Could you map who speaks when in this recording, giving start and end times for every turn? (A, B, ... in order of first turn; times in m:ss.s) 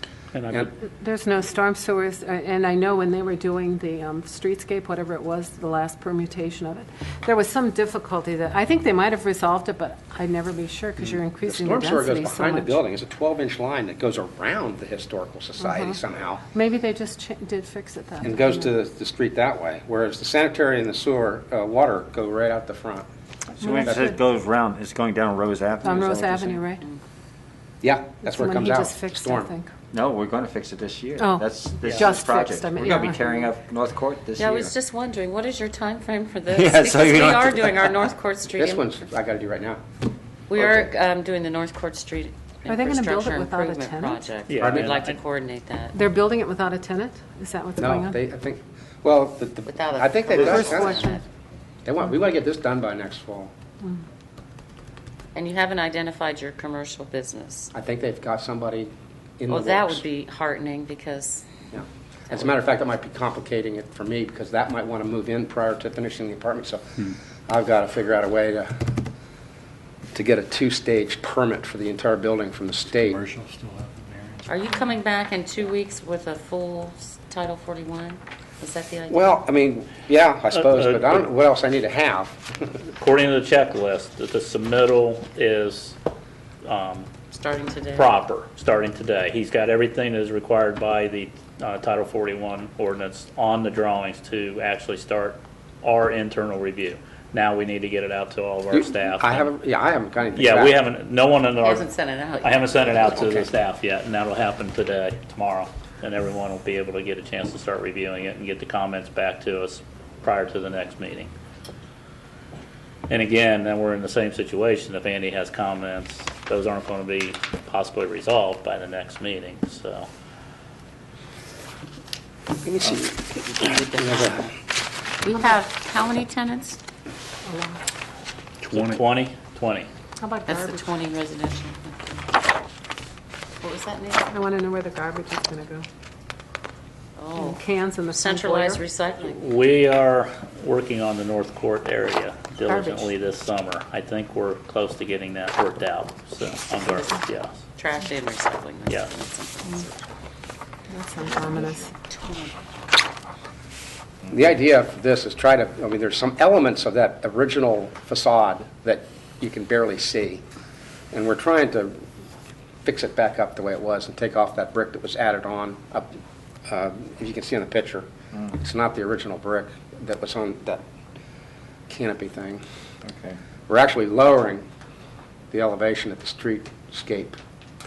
0:00.3-0:00.7 A
0:00.8-0:12.8 B
0:11.0-0:16.4 C
0:15.6-0:16.0 B
0:16.5-0:18.7 B
0:18.2-0:23.0 C
0:23.6-0:26.6 D
0:23.6-0:24.2 B
0:25.8-0:26.8 B
0:27.8-0:29.5 C
0:28.2-0:29.7 B
0:29.9-0:34.7 D
0:31.2-0:33.2 B
0:34.4-0:38.9 E
0:36.5-0:38.0 D
0:38.5-0:39.8 C
0:40.5-0:46.0 E
0:40.5-0:40.9 C
0:42.6-0:44.3 B
0:44.5-0:45.2 A
0:44.6-0:45.0 C
0:45.9-0:48.2 B
0:47.8-0:51.1 C
0:49.6-0:51.2 E
0:50.4-0:51.2 B
0:51.8-0:53.5 C
0:55.3-0:57.7 E
0:57.7-1:00.0 C
0:59.5-1:01.5 E
1:01.7-1:08.9 C
1:10.1-1:13.2 C
1:12.9-1:14.5 F
1:14.5-1:19.4 E
1:19.1-1:22.6 C
1:20.5-1:21.3 A
1:23.0-1:26.0 A
1:26.6-1:27.1 A
1:27.3-1:28.2 E
1:27.9-1:39.5 A
1:38.7-1:40.8 C
1:40.4-1:51.3 A
1:41.6-1:43.2 E
1:43.1-1:43.5 C
1:53.1-2:00.1 A
2:02.6-2:04.5 C
2:03.4-2:04.5 E
2:05.2-2:06.8 E
2:07.4-2:07.8 B
2:08.6-2:09.0 F
2:08.7-2:09.9 A
2:10.2-2:10.9 B
2:10.4-2:12.0 E
2:13.6-2:14.3 E
2:14.3-2:15.8 B
2:17.2-2:17.6 E
2:17.4-2:18.8 B
2:18.1-2:19.4 E
2:19.2-2:27.6 A
2:22.6-2:23.1 B
2:26.8-2:30.0 E
2:30.9-2:31.9 B
2:31.4-2:32.6 E
2:34.3-2:40.4 C
2:41.1-2:42.0 C
2:42.8-2:46.1 C
2:46.7-2:50.8 C
2:51.9-2:52.6 C
2:53.0-2:53.4 D
2:53.7-2:54.6 C
2:55.5-2:57.4 C